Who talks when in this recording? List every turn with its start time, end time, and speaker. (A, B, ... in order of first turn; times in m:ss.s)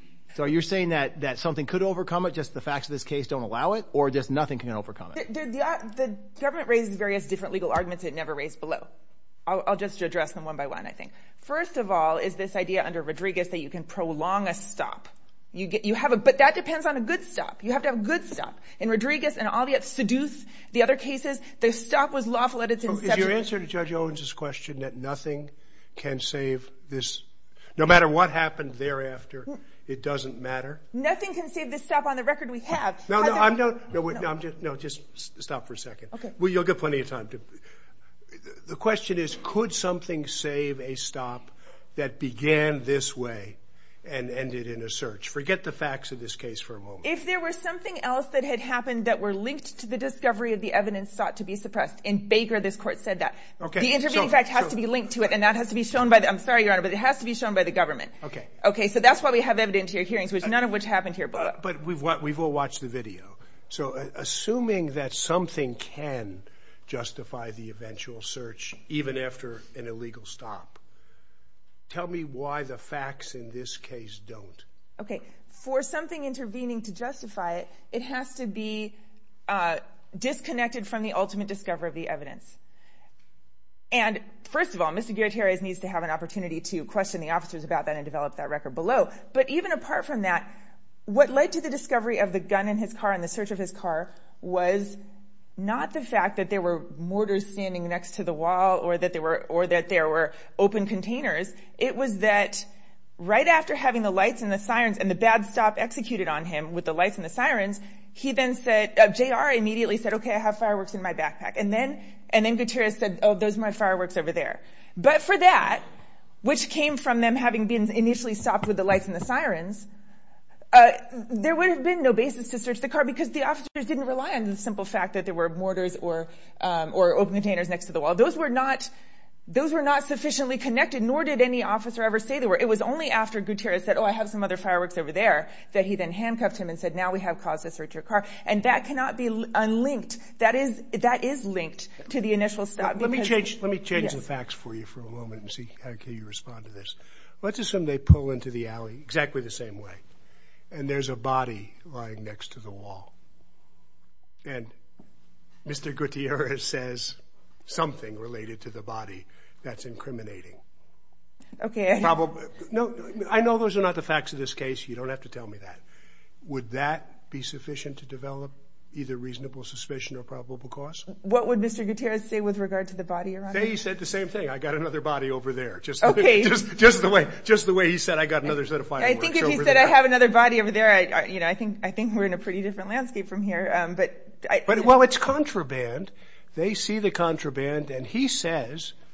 0:00.4-0:05.2 A
0:05.2-0:08.9 B
0:09.5-0:23.4 B
0:22.8-0:30.8 C
0:30.9-0:33.6 B
0:33.1-0:37.6 C
0:38.4-0:47.1 C
0:47.0-1:01.6 B
0:53.6-0:54.8 C
0:58.2-0:58.5 C
1:01.4-1:10.8 C
1:11.9-1:14.7 C
1:15.0-1:22.6 B
1:23.9-1:30.6 B
1:31.1-1:35.0 B
1:35.6-1:55.9 B
1:56.4-1:59.9 B
2:00.7-2:08.9 B
2:09.5-2:24.2 B
2:22.8-2:30.0 C
2:30.7-2:33.1 C
2:34.4-2:34.8 C
2:35.6-2:40.6 C
2:41.6-2:42.2 B
2:42.0-2:45.8 C
2:46.4-2:51.1 C
2:51.1-2:53.7 B
2:53.5-3:00.0 C
2:56.0-2:56.6 B
2:59.0-3:04.9 B
3:04.7-3:09.0 C